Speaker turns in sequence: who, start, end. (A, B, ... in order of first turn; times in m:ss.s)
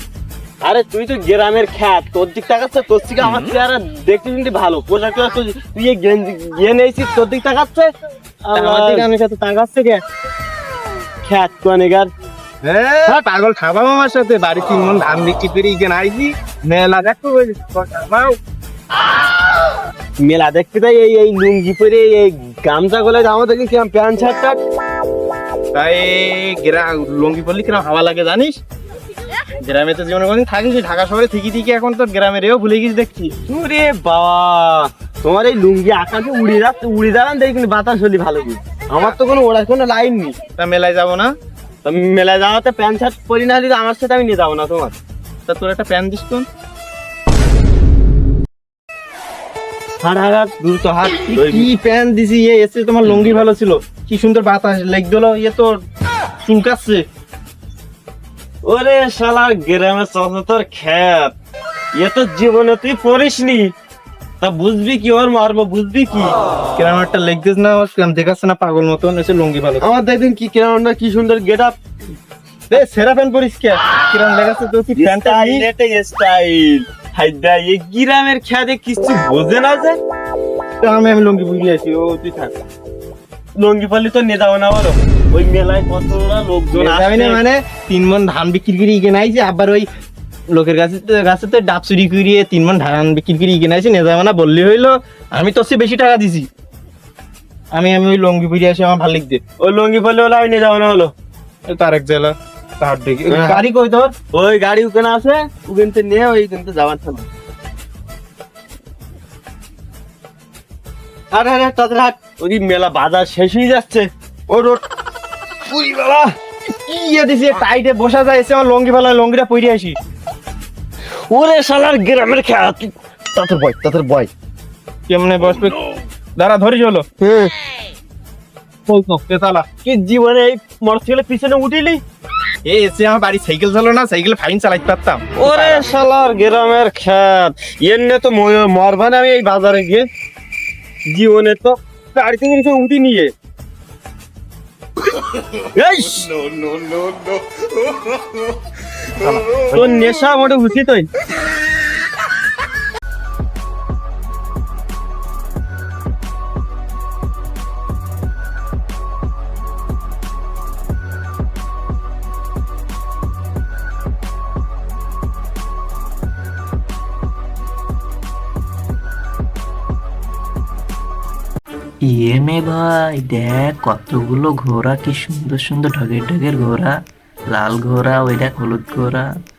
0:00.6-0:10.0 A
0:08.5-0:09.1 B
0:11.2-0:12.1 A
0:12.6-0:17.1 B
0:17.0-0:18.2 A
0:20.2-0:24.6 A
0:25.7-0:28.6 B
0:29.6-0:33.3 B
0:33.5-0:40.4 A
0:40.6-0:41.3 B
0:41.8-0:44.9 A
0:45.5-0:46.5 B
0:50.0-0:51.7 A
0:51.3-0:55.7 B
0:53.1-0:53.3 A
0:56.4-0:57.0 B
0:58.6-1:01.4 A
1:02.0-1:03.6 A
1:04.4-1:06.4 A
1:06.8-1:09.8 B
1:09.8-1:11.8 A
1:12.7-1:15.6 B
1:15.0-1:20.0 A
1:20.8-1:21.7 B
1:21.6-1:22.5 A
1:23.6-1:27.4 A
1:26.7-1:29.9 B
1:30.5-1:36.5 B
1:37.7-1:39.4 B
1:39.6-1:41.1 A
1:41.7-1:44.1 B
1:43.3-1:43.6 A
1:44.3-1:47.2 A
1:51.3-1:54.8 A
1:55.7-1:56.3 A
1:56.9-2:00.0 B
2:01.3-2:04.3 A
2:05.1-2:05.8 B
2:06.4-2:07.0 B
2:07.2-2:07.5 A
2:08.9-2:09.6 B
2:09.8-2:12.0 A
2:12.6-2:15.9 B
2:15.4-2:20.0 A
2:21.1-2:23.3 A
2:25.6-2:27.1 A
2:29.2-2:31.1 A
2:52.1-2:56.9 C
2:57.5-2:59.3 C